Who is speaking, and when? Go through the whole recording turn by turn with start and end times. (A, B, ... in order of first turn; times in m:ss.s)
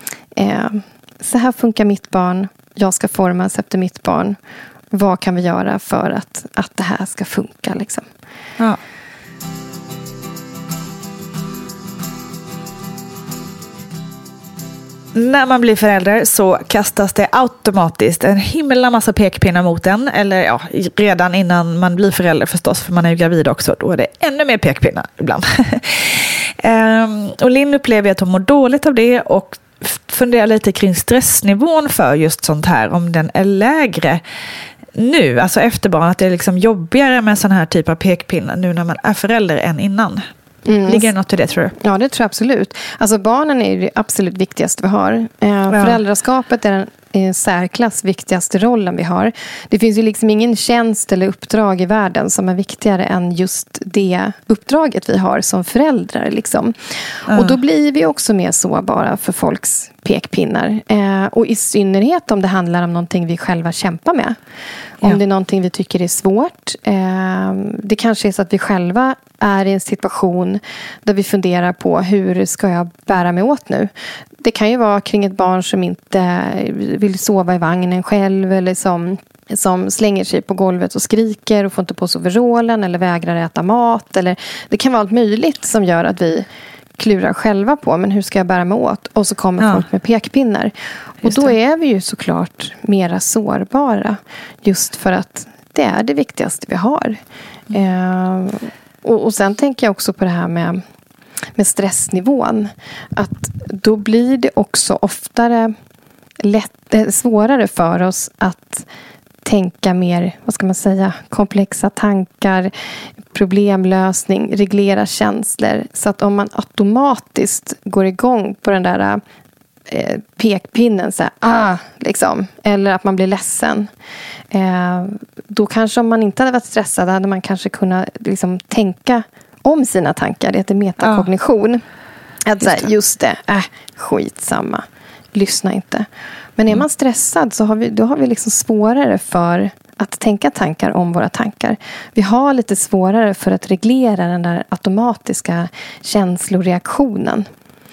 0:00.3-0:04.4 A
0:04.9-0:08.1 A
0:15.1-0:34.2 B
0:34.9-0:40.2 B
0:40.6-0:41.1 A
0:40.9-0:41.7 B
0:41.8-1:04.4 A
0:45.7-0:46.0 B
0:57.3-0:57.6 B
1:05.0-1:26.5 A
1:27.0-1:40.8 A
1:29.6-1:29.8 B
1:31.2-1:31.5 B
1:41.6-1:45.7 A
1:46.4-1:48.8 A
1:49.4-1:52.7 A
1:53.3-1:59.2 A
1:59.9-2:03.9 A
2:04.5-2:11.8 A
2:11.0-2:11.3 B
2:12.4-2:27.5 A
2:12.6-2:12.9 B